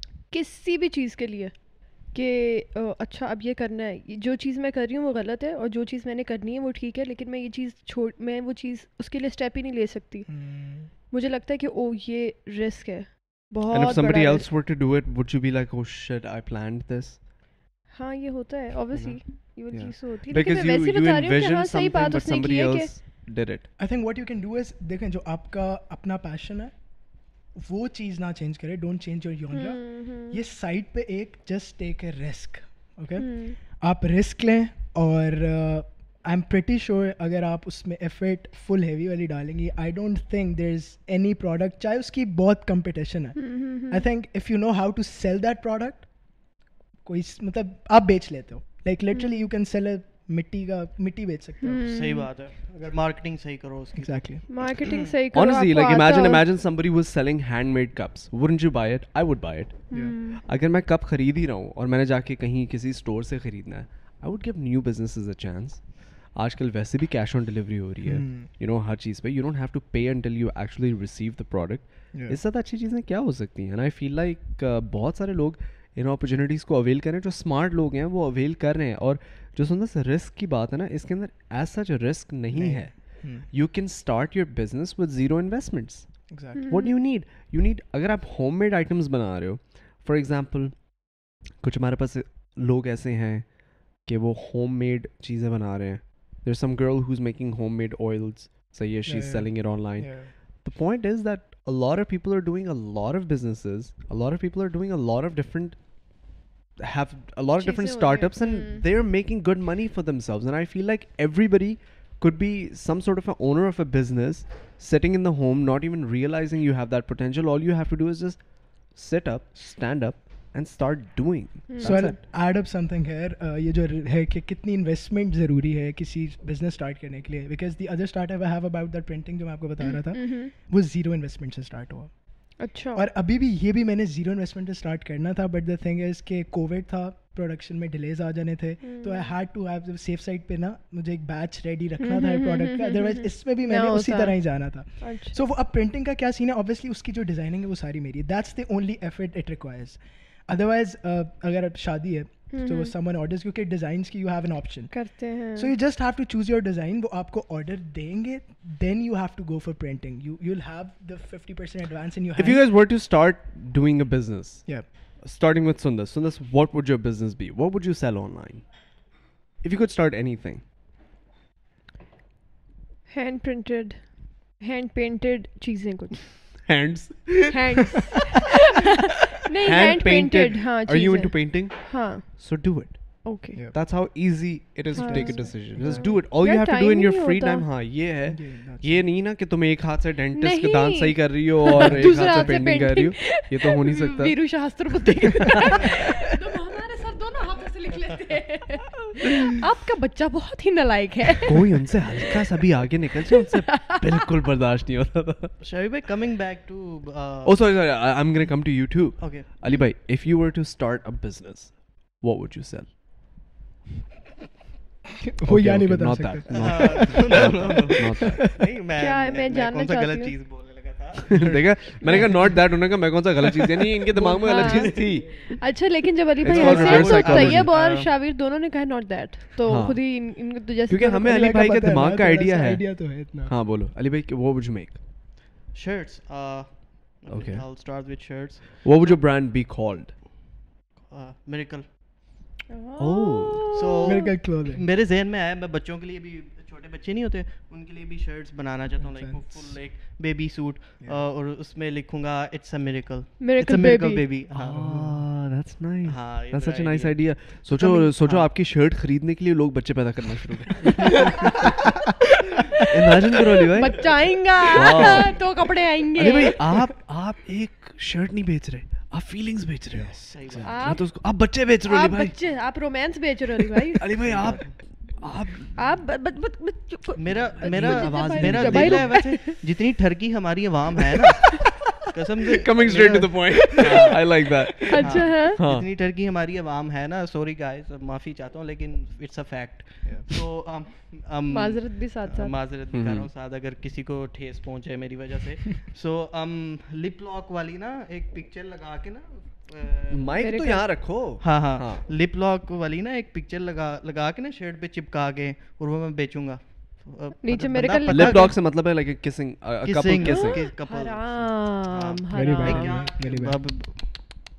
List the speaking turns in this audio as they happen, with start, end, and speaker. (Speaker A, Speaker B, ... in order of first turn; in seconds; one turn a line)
Speaker A: 0.3-1.6
Speaker A: 2.1-10.3
Speaker B: 10.3-10.9
Speaker A: 11.1-14.5
Speaker C: 13.7-17.2
Speaker A: 17.9-22.9
Speaker C: 18.9-19.2
Speaker C: 19.7-23.7
Speaker B: 23.8-26.7
Speaker B: 27.6-46.1
Speaker A: 29.5-30.4
Speaker A: 33.2-33.6
Speaker A: 43.4-44.0
Speaker B: 47.0-51.9
Speaker A: 49.1-49.5
Speaker A: 51.6-52.3
Speaker D: 51.9-55.2
Speaker B: 54.0-54.5
Speaker A: 54.5-56.4
Speaker C: 55.3-86.1
Speaker A: 59.9-60.4
Speaker B: 68.0-68.5
Speaker B: 82.5-83.5
Speaker B: 86.3-86.7
Speaker A: 86.6-87.0
Speaker C: 86.7-106.3
Speaker B: 99.1-100.3
Speaker C: 106.8-122.2
Speaker A: 107.6-108.8
Speaker A: 121.7-122.0
Speaker B: 121.8-132.1
Speaker A: 129.8-130.5
Speaker A: 132.6-133.0
Speaker B: 132.9-162.6
Speaker A: 138.8-139.3
Speaker A: 142.0-144.4
Speaker A: 145.0-145.4
Speaker A: 152.5-152.9
Speaker A: 154.9-155.7
Speaker C: 162.4-168.7
Speaker C: 169.6-170.6
Speaker A: 173.1-176.4
Speaker C: 176.7-177.8
Speaker A: 177.5-182.5
Speaker C: 179.6-194.8
Speaker A: 183.2-183.6
Speaker B: 183.5-183.8
Speaker A: 184.9-187.7
Speaker B: 185.0-186.2
Speaker B: 188.3-189.1
Speaker A: 190.3-201.7
Speaker B: 191.8-192.7
Speaker C: 195.5-196.0
Speaker C: 201.5-205.6
Speaker A: 203.4-204.0
Speaker D: 205.6-207.6
Speaker C: 207.4-213.0
Speaker D: 209.2-209.5
Speaker B: 215.2-218.6
Speaker C: 215.5-218.5
Speaker D: 216.5-222.5
Speaker A: 219.0-220.4
Speaker C: 221.3-225.5
Speaker B: 222.1-222.6
Speaker D: 224.2-225.0
Speaker A: 224.4-231.7
Speaker B: 224.4-225.2
Speaker C: 226.4-227.7
Speaker D: 226.4-228.1
Speaker C: 229.7-235.0
Speaker B: 231.2-233.5
Speaker D: 235.7-239.2
Speaker C: 237.3-237.7
Speaker C: 238.8-240.2
Speaker D: 241.0-241.9
Speaker A: 242.7-244.3
Speaker C: 243.0-243.8
Speaker D: 243.7-255.0
Speaker B: 244.0-244.8
Speaker B: 249.0-249.8
Speaker A: 253.4-254.2
Speaker C: 254.5-261.8
Speaker B: 254.8-255.1
Speaker D: 256.1-258.5
Speaker C: 262.8-264.2
Speaker A: 263.7-266.6
Speaker C: 264.7-265.4
Speaker C: 266.1-272.4
Speaker B: 269.9-270.9
Speaker D: 270.3-270.9
Speaker A: 270.6-271.1
Speaker A: 271.9-274.0
Speaker C: 274.0-275.8
Speaker D: 274.2-274.8
Speaker A: 275.8-279.6
Speaker D: 277.2-284.4
Speaker C: 277.6-279.4
Speaker C: 282.6-285.9
Speaker A: 284.9-285.6
Speaker D: 284.9-300.5
Speaker A: 291.5-292.6
Speaker C: 292.9-293.3
Speaker C: 300.1-302.1
Speaker A: 300.4-300.9
Speaker D: 301.4-308.6
Speaker A: 307.4-308.6
Speaker C: 308.1-310.7
Speaker D: 309.8-314.1
Speaker A: 310.2-313.0
Speaker B: 312.3-313.6